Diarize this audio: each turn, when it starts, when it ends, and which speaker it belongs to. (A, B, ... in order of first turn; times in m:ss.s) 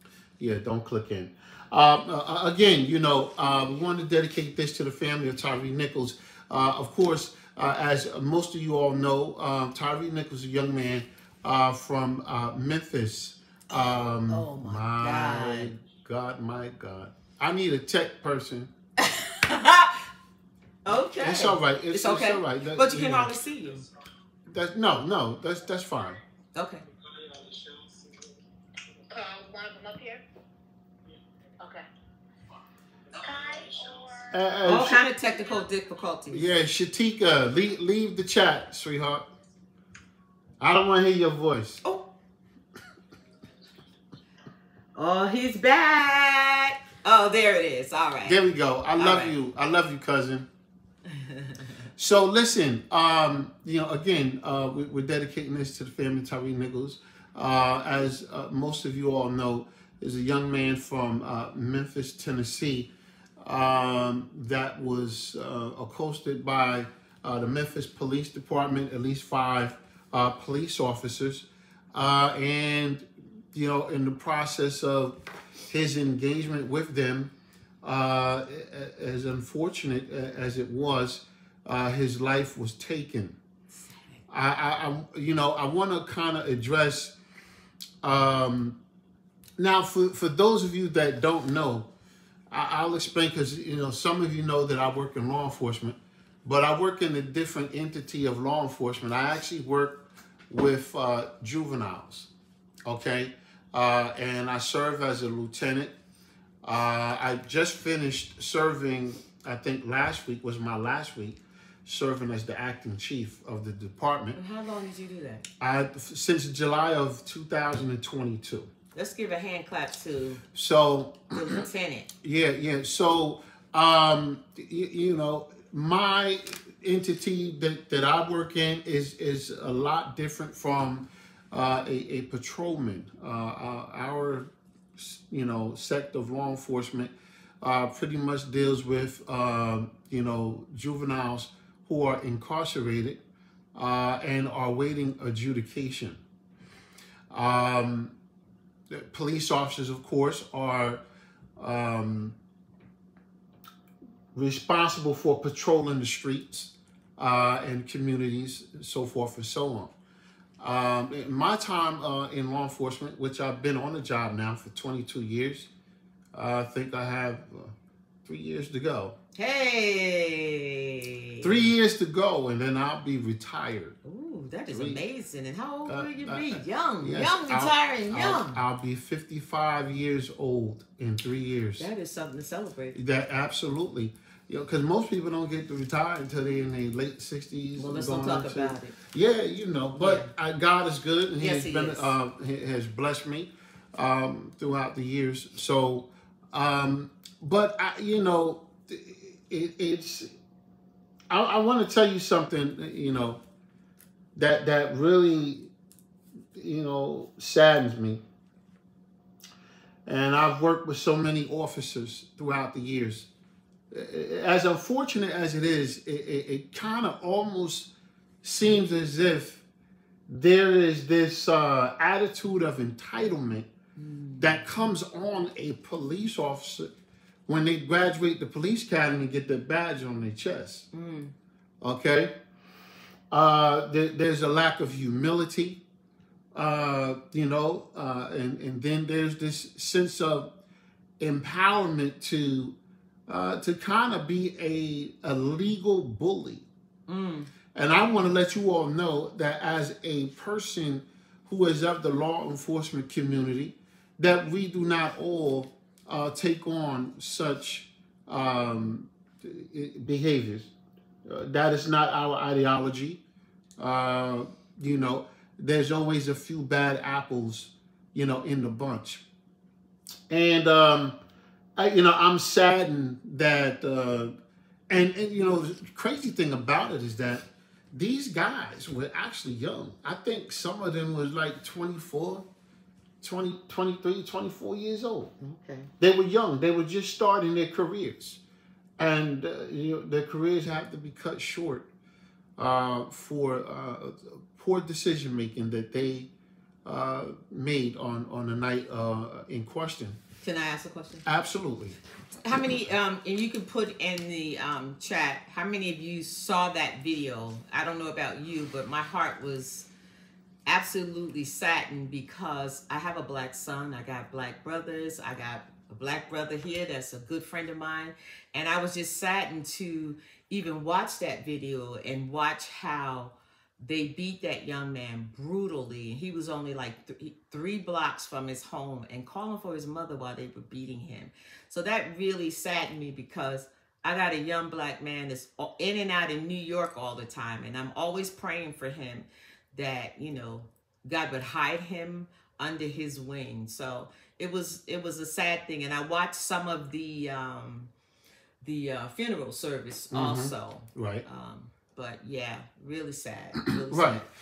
0:00.4-0:18.7 A
0:13.7-0:15.8 B
0:19.0-0:20.0 B
0:20.8-0:23.8 B
0:21.2-0:23.4 A
0:24.5-0:26.2 A
0:26.6-0:26.8 B
0:27.2-0:27.8 C
0:29.1-0:30.2 C
0:31.6-0:31.8 C
0:33.1-0:34.3 C
0:34.3-0:35.0 A
0:34.6-0:36.5 B
0:36.3-0:39.2 A
0:40.6-0:41.8 A
0:45.0-0:48.4 B
0:48.2-0:50.5 A
0:49.0-0:49.4 B
0:51.1-0:51.8 B
0:52.0-1:02.9 A
1:03.4-1:15.2 A
1:15.7-1:23.4 A
1:23.8-1:24.2 B
1:24.3-1:27.1 A
1:28.0-1:28.8 A
1:29.6-1:31.9 A
1:32.5-1:42.3 A
1:42.9-1:46.0 A
1:46.6-1:54.4 A
1:54.4-1:55.5 B
1:55.6-1:58.7 A
1:58.9-2:00.4 B
2:00.5-2:01.6 A
2:01.3-2:02.1 B
2:02.2-2:23.2 A
2:23.8-2:26.2 A
2:27.3-2:28.2 A
2:28.9-2:31.0 A
2:31.6-2:32.4 A
2:34.3-2:39.9 A
2:40.6-2:45.7 A
2:46.3-2:49.2 A
2:49.4-2:51.6 B
2:51.4-2:54.0 A
2:54.0-2:58.6 B
2:54.7-2:55.0 A
2:55.9-3:01.9 A
3:01.8-3:03.0 B
3:02.9-3:20.3 A
3:07.8-3:09.0 B
3:10.0-3:10.3 B
3:11.4-3:12.1 B
3:21.3-3:23.4 A
3:24.4-3:25.7 A
3:26.6-3:28.2 A
3:30.1-3:33.3 A
3:33.9-3:37.9 A
3:38.4-3:39.6 A
3:40.3-3:43.7 A
3:44.0-3:44.6 B
3:44.4-3:46.9 A
3:47.5-3:50.9 A
3:50.9-3:51.3 B
3:51.8-3:52.3 A
3:53.3-3:55.8 A
3:56.5-4:00.5 A
4:01.2-4:02.8 A
4:03.3-4:06.7 A
4:07.1-4:07.5 B
4:07.8-4:20.7 A
4:21.3-4:23.2 A
4:23.8-4:29.2 A
4:30.3-4:31.2 A
4:31.8-4:34.3 A
4:34.9-4:42.5 A
4:43.2-4:45.3 A
4:45.4-4:45.9 B
4:46.0-4:48.4 A
4:49.0-4:51.9 A
4:52.6-4:56.3 A
4:56.8-5:00.2 A
5:00.4-5:01.3 B
5:01.3-5:02.0 A
5:02.4-5:09.9 B
5:10.7-5:47.9 B
5:48.6-5:54.2 B
5:50.1-5:51.2 A
5:53.8-5:54.2 A